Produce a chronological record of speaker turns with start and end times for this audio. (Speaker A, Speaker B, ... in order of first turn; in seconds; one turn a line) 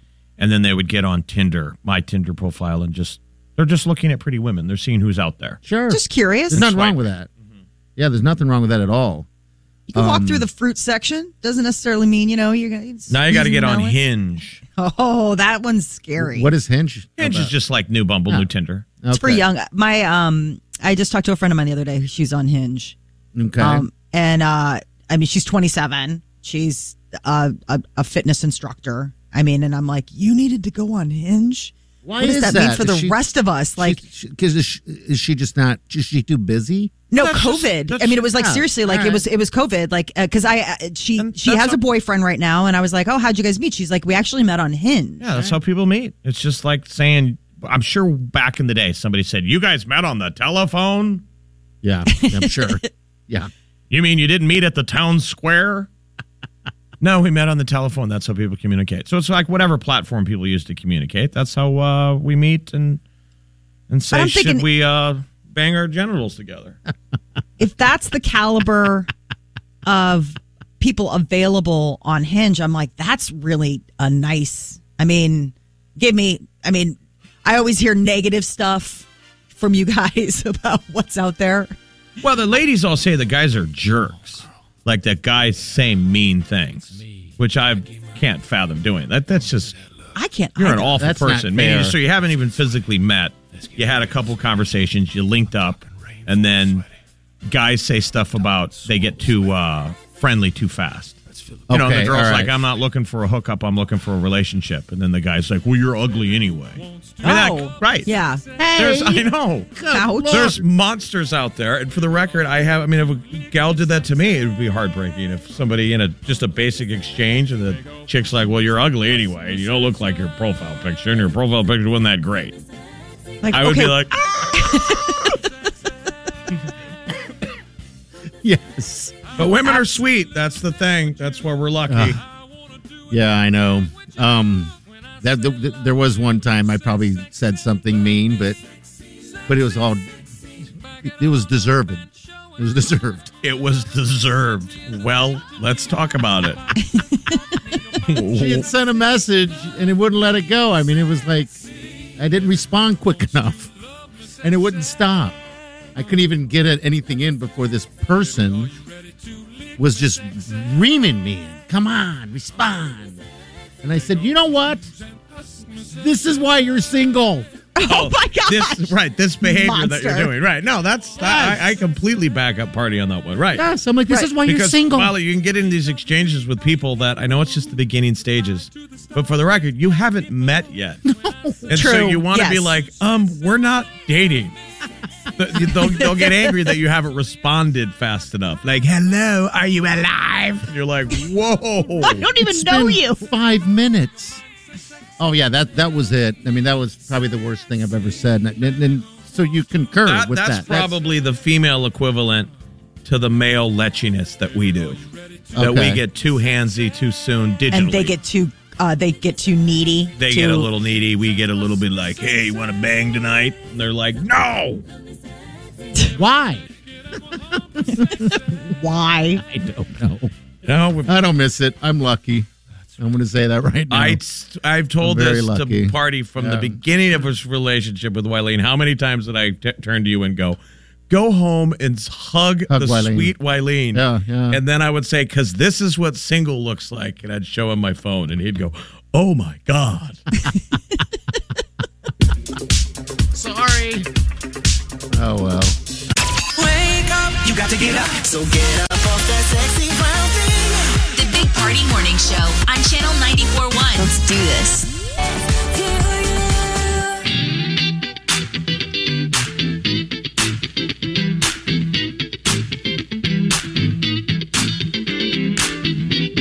Speaker A: 0.4-5.6
Speaker B: 5.6-7.3
Speaker C: 5.9-6.6
Speaker A: 6.5-7.0
Speaker B: 8.0-9.3
Speaker C: 9.9-14.0
Speaker B: 9.9-10.4
Speaker A: 13.1-14.6
Speaker C: 14.8-16.5
Speaker B: 16.2-17.5
Speaker A: 17.2-18.9
Speaker B: 19.0-19.4
Speaker C: 19.1-22.9
Speaker B: 23.3-23.9
Speaker C: 23.6-34.0
Speaker B: 32.0-33.2
Speaker B: 33.8-36.9
Speaker C: 37.1-45.3
Speaker A: 37.1-38.5
Speaker B: 38.3-39.2
Speaker A: 41.2-41.8
Speaker A: 45.2-51.2
Speaker B: 51.8-53.5
Speaker C: 52.1-52.9
Speaker A: 53.9-55.9
Speaker A: 57.0-63.0
Speaker A: 63.9-66.8
Speaker C: 64.1-64.7
Speaker C: 67.6-69.1
Speaker C: 69.8-81.7
Speaker A: 82.2-89.8
Speaker C: 90.2-90.9
Speaker A: 90.6-96.8
Speaker B: 90.7-92.0
Speaker A: 97.4-108.1
Speaker B: 101.7-102.6
Speaker C: 107.2-108.4
Speaker B: 108.6-110.6
Speaker A: 108.7-122.6
Speaker C: 109.9-110.5
Speaker C: 123.4-125.3
Speaker A: 123.5-124.9
Speaker B: 128.4-129.3
Speaker A: 129.4-132.2
Speaker B: 131.9-132.2
Speaker B: 133.1-138.6
Speaker B: 139.5-140.0
Speaker B: 141.0-143.3
Speaker A: 143.4-146.6
Speaker C: 147.0-147.4
Speaker A: 148.0-148.7
Speaker B: 148.3-151.6
Speaker B: 152.2-153.7
Speaker B: 154.4-155.4
Speaker B: 155.9-158.7
Speaker B: 159.8-163.2
Speaker B: 163.8-164.9
Speaker B: 165.9-167.5
Speaker C: 167.7-170.3
Speaker A: 167.8-173.6
Speaker B: 171.2-171.7
Speaker B: 173.5-175.1
Speaker A: 174.4-181.0
Speaker B: 181.1-181.8
Speaker A: 181.7-184.6
Speaker C: 181.7-182.7
Speaker A: 185.4-192.3
Speaker C: 192.0-193.2
Speaker B: 192.3-194.4
Speaker B: 195.2-200.9
Speaker A: 200.0-202.5
Speaker A: 203.0-205.0
Speaker B: 205.5-206.0
Speaker A: 205.6-208.1
Speaker C: 207.7-210.7
Speaker A: 210.2-214.8
Speaker B: 216.1-216.7
Speaker B: 217.8-218.4
Speaker C: 218.2-219.4
Speaker B: 219.4-220.3
Speaker A: 220.6-221.1
Speaker B: 221.0-224.2
Speaker A: 223.9-230.6
Speaker B: 225.0-226.8
Speaker A: 231.1-240.2
Speaker B: 232.7-233.3
Speaker B: 233.9-234.6
Speaker B: 243.3-244.1
Speaker B: 245.1-245.8
Speaker D: 246.6-251.0
Speaker E: 251.1-254.2
Speaker D: 254.0-254.9